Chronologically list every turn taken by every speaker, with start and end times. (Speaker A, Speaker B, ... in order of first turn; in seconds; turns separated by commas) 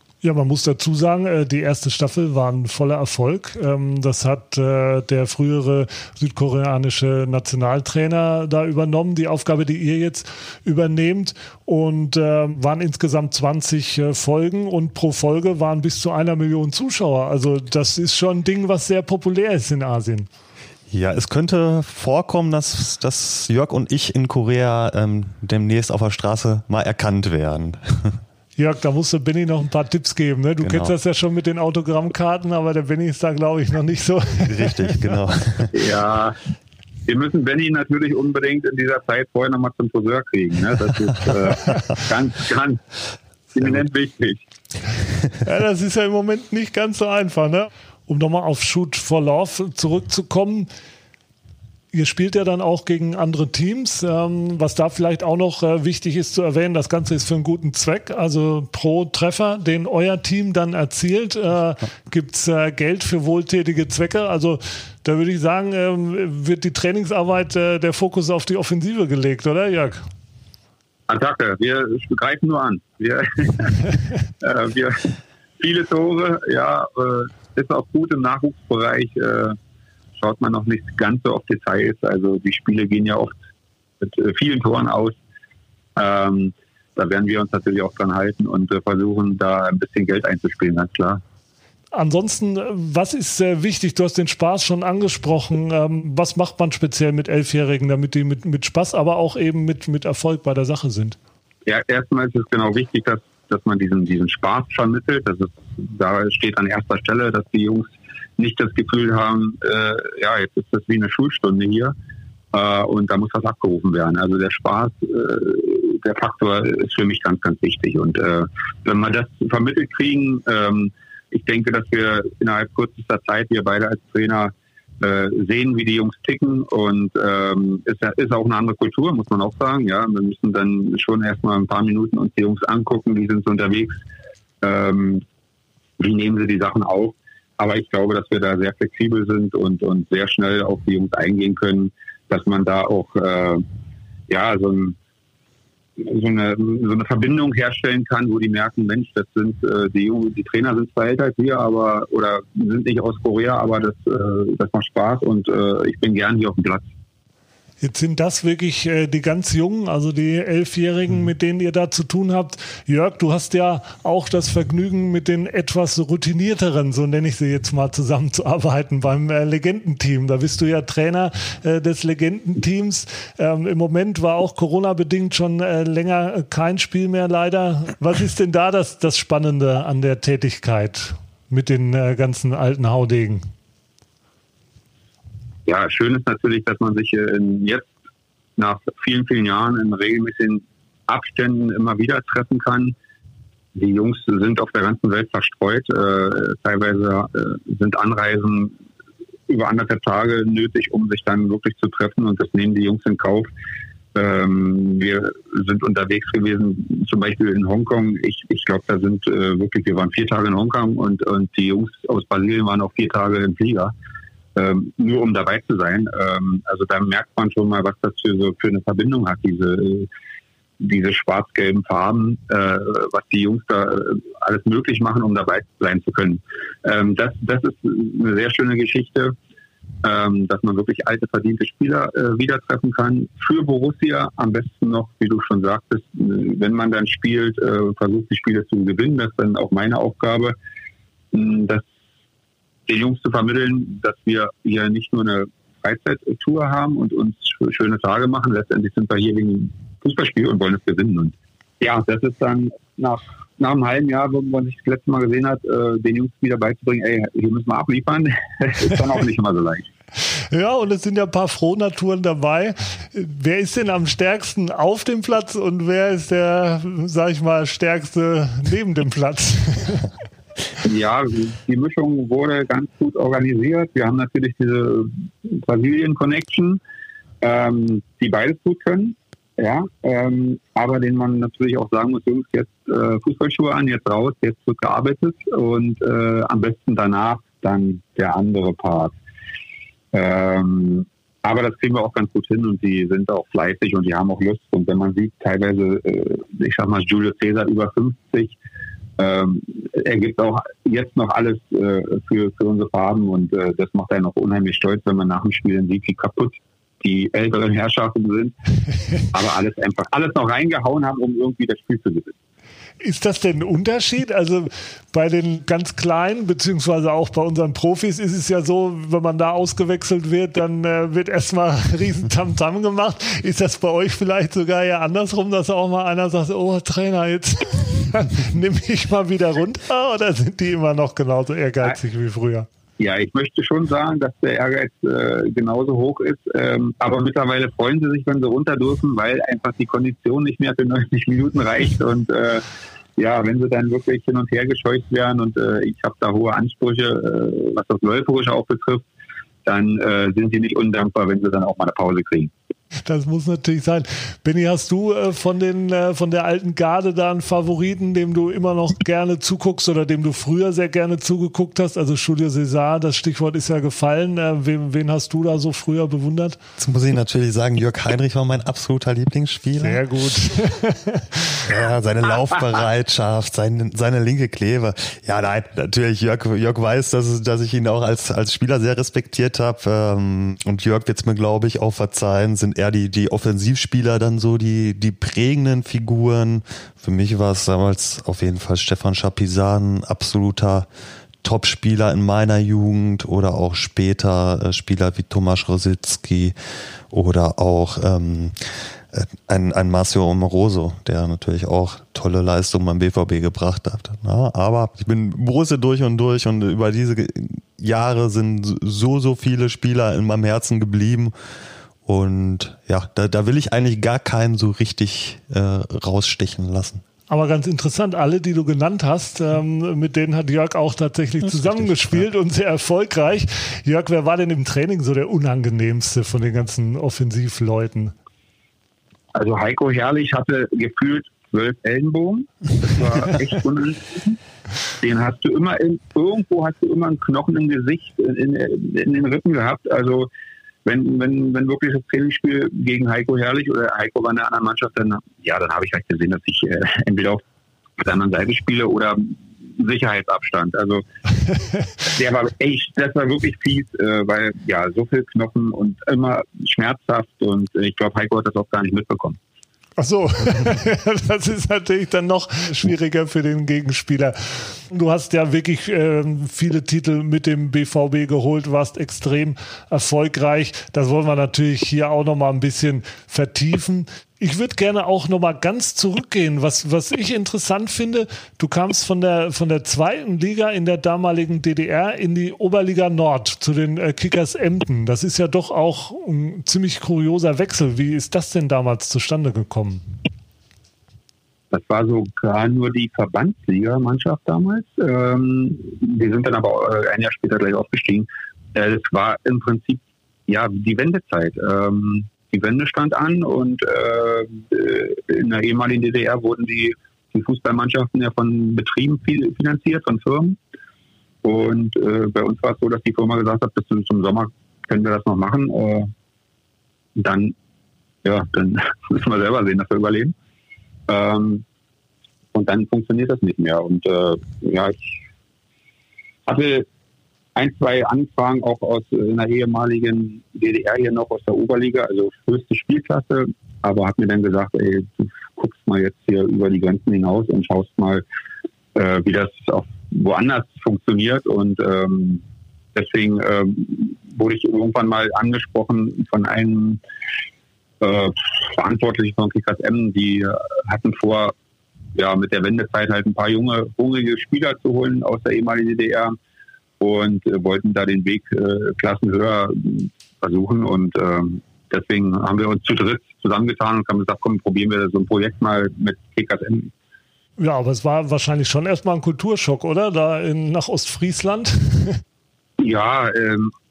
Speaker A: 0.2-20.3, Speaker B: 20.9-28.2, Speaker A: 28.6-35.0, Speaker B: 30.6-30.9, Speaker B: 34.5-35.7, Speaker C: 35.7-36.4, Speaker C: 37.1-42.8, Speaker C: 43.5-44.4, Speaker A: 45.4-50.7, Speaker A: 51.9-70.0, Speaker C: 71.1-79.6, Speaker C: 80.2-83.4, Speaker C: 84.0-85.2, Speaker C: 86.0-91.2, Speaker A: 91.9-101.2, Speaker C: 101.7-111.9, Speaker C: 112.5-134.0, Speaker C: 134.6-135.2, Speaker C: 136.0-143.6, Speaker C: 144.3-145.0, Speaker C: 146.0-156.9, Speaker A: 157.8-183.5, Speaker C: 185.7-187.9, Speaker C: 188.6-192.9, Speaker C: 193.8-198.8, Speaker C: 199.5-203.5, Speaker C: 204.2-213.9, Speaker C: 214.6-220.1, Speaker C: 220.8-229.3, Speaker C: 230.0-240.6, Speaker C: 241.3-241.8, Speaker C: 242.9-259.9, Speaker A: 260.5-270.1, Speaker C: 270.8-276.8, Speaker C: 277.4-289.2, Speaker C: 290.1-298.6, Speaker C: 299.2-308.6, Speaker C: 309.2-312.4, Speaker A: 313.0-332.7, Speaker C: 333.0-342.6, Speaker C: 343.2-349.0, Speaker C: 349.6-352.5, Speaker A: 353.1-366.6, Speaker B: 366.8-370.0, Speaker A: 369.8-371.6, Speaker B: 371.6-390.9, Speaker B: 391.4-396.6, Speaker B: 397.1-411.3, Speaker B: 412.1-417.0, Speaker A: 417.3-428.1, Speaker B: 421.6-422.2, Speaker C: 429.4-434.4, Speaker C: 435.0-440.3, Speaker C: 440.9-447.4, Speaker C: 448.0-451.0, Speaker C: 452.1-459.4, Speaker A: 460.0-490.1, Speaker C: 491.7-510.6, Speaker C: 511.4-516.1, Speaker C: 517.2-517.5, Speaker C: 518.2-520.3, Speaker C: 521.1-521.6, Speaker C: 522.5-525.2, Speaker C: 526.5-526.9, Speaker C: 527.5-538.2, Speaker C: 539.0-542.4, Speaker C: 543.0-547.0, Speaker C: 548.0-551.5, Speaker C: 552.1-556.4, Speaker C: 557.0-566.9, Speaker A: 567.6-572.2, Speaker C: 572.8-573.7